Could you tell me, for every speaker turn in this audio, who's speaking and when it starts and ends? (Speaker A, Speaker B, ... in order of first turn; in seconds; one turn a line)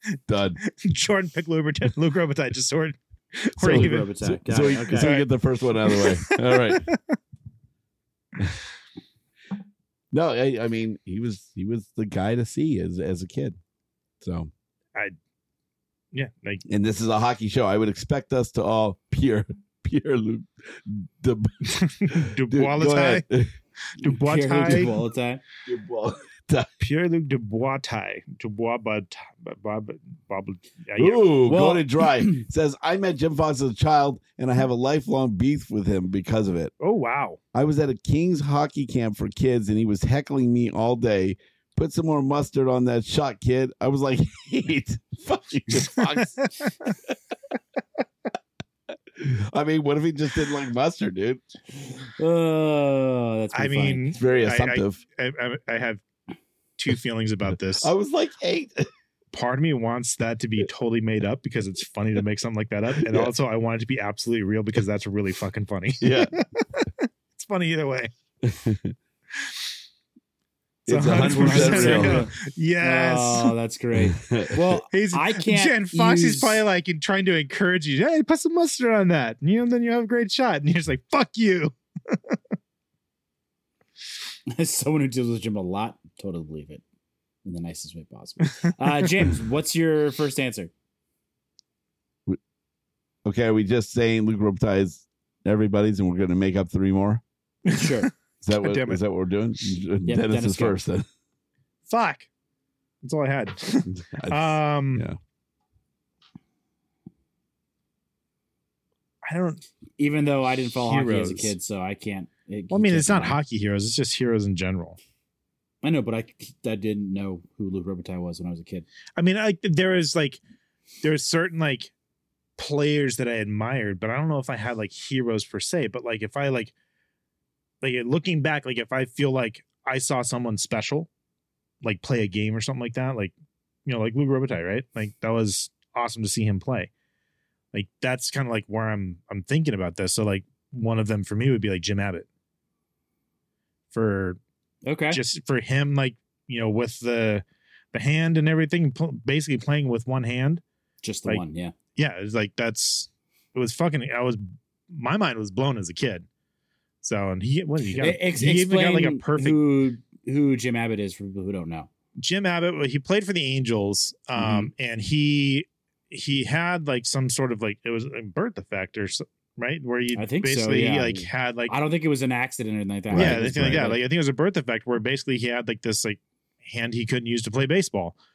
Speaker A: 0.3-0.6
Speaker B: 0.6-4.1
Speaker C: 3.6-5.2
Speaker A: 3.6-6.9
Speaker B: 4.9-5.3
Speaker B: 5.8-7.1
Speaker A: 10.1-13.6
Speaker A: 14.2-14.5
Speaker B: 16.1-16.6
Speaker A: 16.7-23.5
Speaker B: 21.8-23.2
Speaker B: 24.0-24.9
Speaker C: 24.1-25.4
Speaker A: 25.6-26.9
Speaker B: 26.8-31.4
Speaker A: 30.9-36.7
Speaker C: 31.4-32.4
Speaker B: 36.8-37.4
Speaker A: 37.5-46.5
Speaker B: 46.1-46.7
Speaker A: 49.1-51.4
Speaker C: 52.2-54.1
Speaker B: 53.5-56.0
Speaker A: 54.1-55.0
Speaker B: 56.8-57.9
Speaker A: 57.8-58.9
Speaker B: 59.3-68.1
Speaker A: 63.0-63.3
Speaker A: 66.0-66.3
Speaker A: 68.4-69.0
Speaker A: 70.9-72.3
Speaker B: 70.9-73.5
Speaker C: 71.2-76.6
Speaker A: 73.9-74.8
Speaker B: 74.9-82.3
Speaker C: 84.5-86.8
Speaker C: 87.4-90.7
Speaker A: 93.2-97.2
Speaker B: 97.7-99.0
Speaker C: 97.7-98.1
Speaker A: 98.4-101.0
Speaker C: 100.0-100.8
Speaker B: 101.9-102.3
Speaker B: 103.0-105.0
Speaker A: 103.9-105.2
Speaker B: 109.2-109.6
Speaker C: 110.0-113.4
Speaker B: 110.8-111.5
Speaker B: 112.7-115.0
Speaker C: 115.8-118.8
Speaker B: 119.2-120.4
Speaker B: 121.0-121.9
Speaker B: 122.6-126.7
Speaker B: 127.8-131.1
Speaker B: 131.8-133.3
Speaker B: 133.8-136.9
Speaker B: 137.7-142.3
Speaker B: 143.9-144.4
Speaker C: 144.8-145.2
Speaker B: 145.1-150.6
Speaker C: 151.0-151.7
Speaker B: 151.9-156.2
Speaker B: 157.0-159.6
Speaker C: 158.0-161.9
Speaker B: 162.2-171.8
Speaker C: 164.3-164.7
Speaker C: 170.1-174.0
Speaker A: 173.1-173.9
Speaker B: 173.1-178.2